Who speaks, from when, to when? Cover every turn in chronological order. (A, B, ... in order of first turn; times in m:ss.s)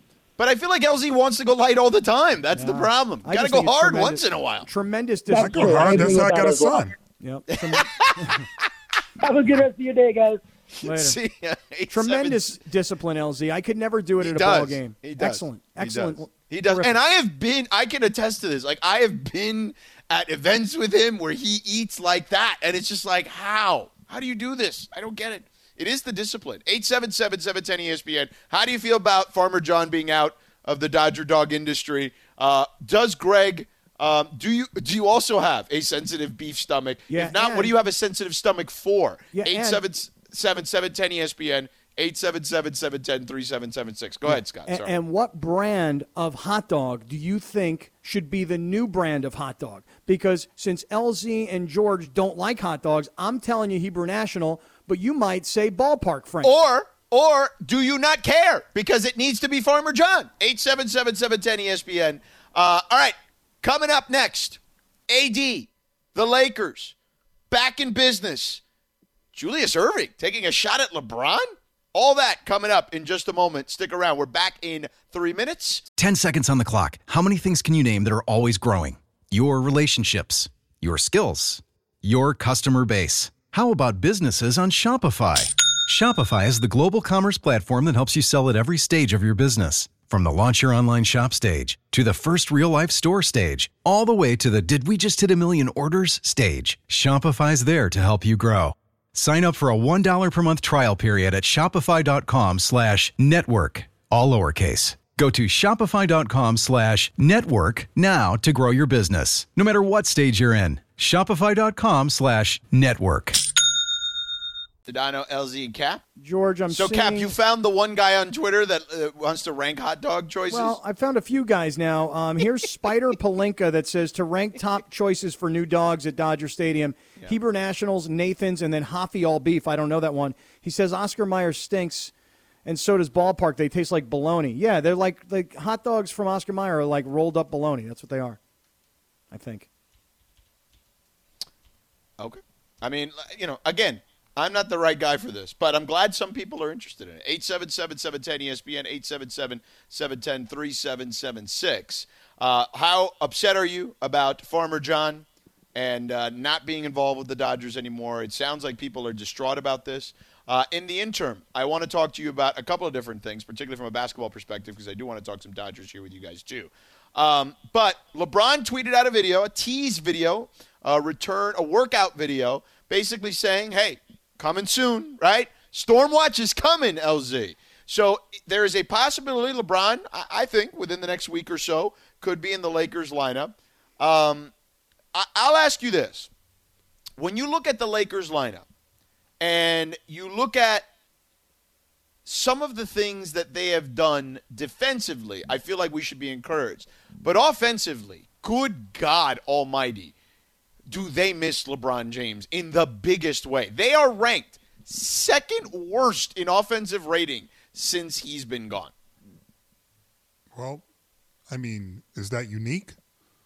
0:00.4-0:04.7 A
0:02.5-0:06.6 B
0:05.3-0:06.9 C
0:05.4-0:07.0 D
0:07.2-0:08.5 B
0:07.5-0:08.7 A
0:09.2-0:10.4 C
0:10.7-0:12.5 A
0:10.8-0:11.2 B
0:11.9-0:17.0 B
0:14.2-0:44.9 A
0:37.1-0:37.7 B
0:39.3-0:39.8 B
0:44.2-0:56.5 B
0:56.4-1:06.9 A
1:07.5-1:08.6 A
1:09.3-1:15.8 A
1:16.0-1:53.4 E
1:54.9-1:56.0 A
1:56.2-1:57.4 B
1:56.7-2:00.8 A
2:00.5-2:12.1 B
2:12.6-2:18.4 B
2:19.3-2:19.7 B
2:22.2-3:04.5 A
3:05.1-3:06.3 A
3:07.2-3:08.7 A
3:09.4-3:10.9 A
3:12.3-3:20.1 A
3:20.9-3:28.9 A
3:30.5-3:30.8 D
3:31.5-3:33.0 D